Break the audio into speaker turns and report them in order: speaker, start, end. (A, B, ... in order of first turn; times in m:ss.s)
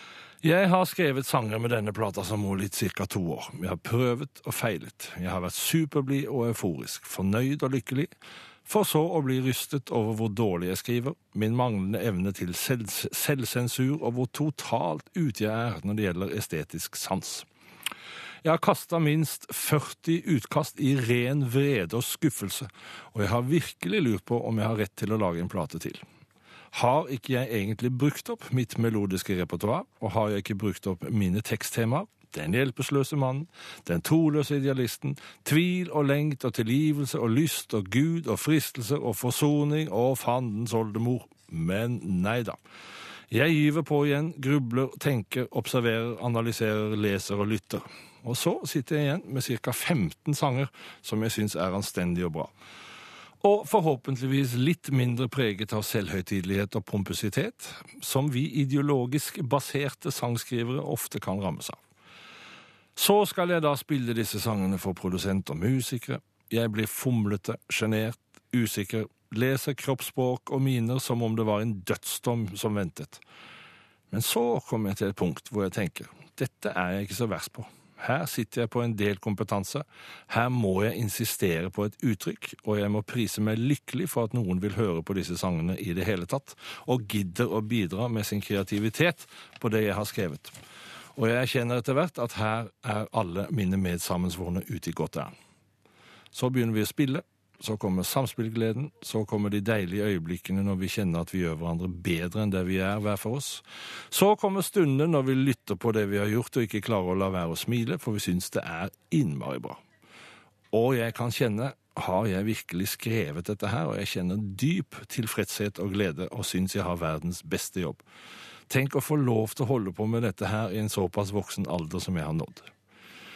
0:00.4-0:08.1 A
0:08.6-0:17.4 A
0:18.4-0:26.0 A
0:26.7-0:42.6 A
0:43.3-0:52.5 A
0:53.4-1:01.8 A
1:03.0-1:13.2 A
1:14.1-1:30.5 A
1:31.2-1:35.3 A
1:36.3-1:49.8 A
1:50.7-1:58.0 A
1:58.7-2:02.7 A